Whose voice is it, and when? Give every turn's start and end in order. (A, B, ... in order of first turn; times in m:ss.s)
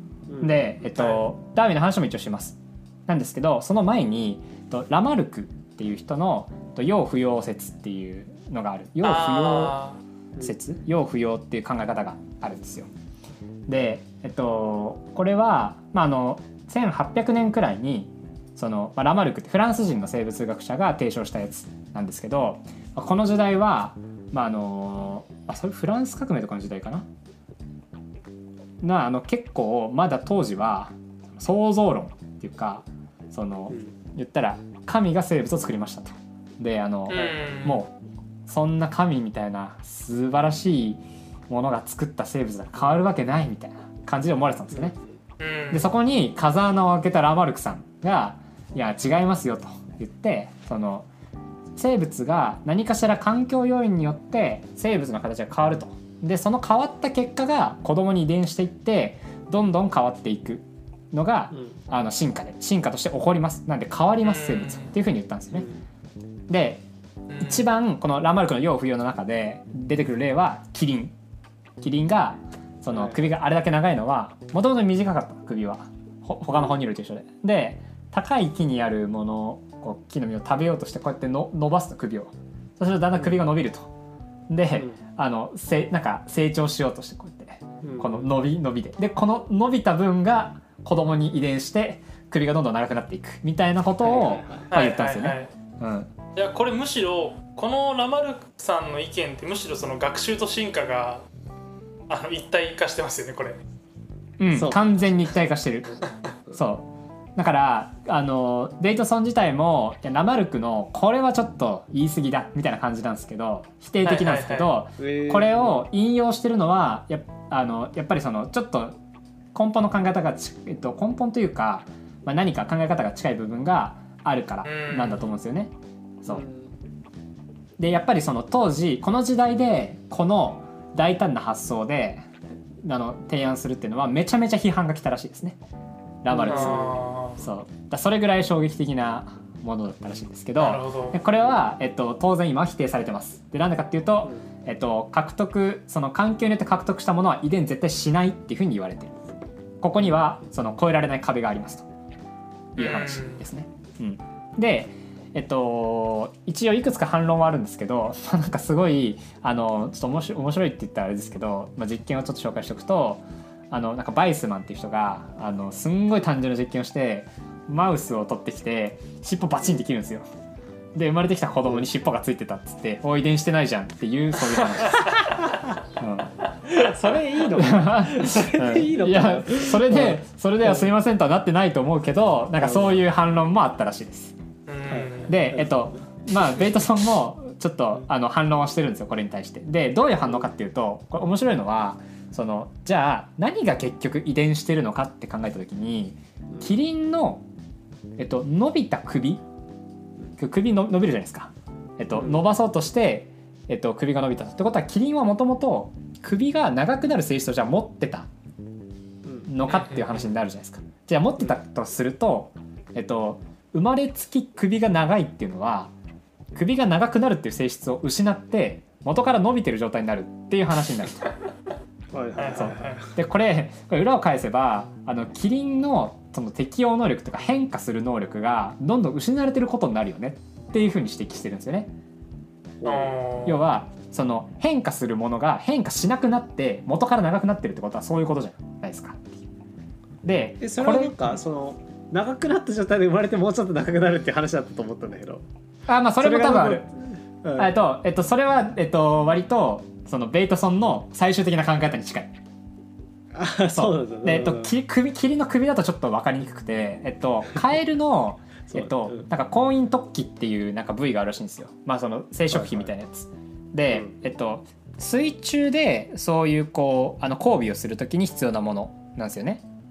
0:00.3-0:00.6 A
0:00.4-0:09.8 B
0:00.9-0:01.2 C
0:09.0-0:10.0 C
0:10.4-0:12.9 B
0:13.7-0:27.1 B
0:28.8-0:37.9 B
0:33.7-0:34.0 A
0:37.1-0:37.9 C
0:38.5-0:45.0 B
0:44.7-0:45.2 A
0:45.4-0:45.9 C
0:45.7-0:51.1 B
0:51.8-1:05.7 B
1:01.5-1:01.8 A
1:04.2-1:04.9 C
1:06.5-1:06.8 B
1:07.3-1:07.6 C
1:07.4-1:11.1 B
1:11.8-1:23.9 B
1:12.9-1:13.2 A
1:24.5-1:36.1 B
1:24.7-1:25.0 A
1:27.8-1:28.3 A
1:34.0-1:34.7 A
1:34.7-1:35.5 C
1:36.4-1:41.2 C
1:42.1-1:43.6 C
1:44.4-1:46.0 B
1:44.5-1:45.1 A
1:46.5-1:59.0 B
1:54.0-1:54.7 C
1:55.0-1:55.8 A
1:59.5-2:06.4 B
2:04.6-2:05.3 C
2:06.3-2:06.8 A
2:07.8-2:12.3 B
2:12.8-2:15.6 B
2:16.2-2:29.1 B
2:16.3-2:17.1 A
2:16.5-2:17.4 C
2:20.6-2:21.2 C
2:29.8-2:31.9 B
2:32.8-2:33.4 C
2:32.8-2:50.3 B
2:50.9-2:55.4 B
2:56.0-2:56.3 B
2:56.7-3:00.9 A
2:57.4-3:04.4 B
3:02.6-3:03.0 A
3:04.7-3:05.4 C
3:04.9-3:05.2 A
3:05.2-3:17.4 B
3:18.2-3:19.4 B
3:20.4-3:28.3 B
3:22.2-3:22.4 A
3:29.2-3:29.5 A
3:29.5-3:35.9 B
3:29.7-3:30.3 C
3:36.5-3:41.3 B
3:42.1-3:43.1 A
3:42.4-3:43.0 C
3:42.6-3:51.9 B
3:52.8-3:53.2 A
3:52.8-3:53.6 C
3:53.4-3:59.4 B
4:00.2-4:01.4 B
4:00.6-4:05.5 A
4:05.9-4:06.9 B
4:06.2-4:07.8 A
4:07.6-4:12.4 B
4:13.3-4:14.8 A
4:13.7-4:29.6 B
4:18.7-4:19.3 A
4:22.5-4:22.9 A
4:23.9-4:24.2 A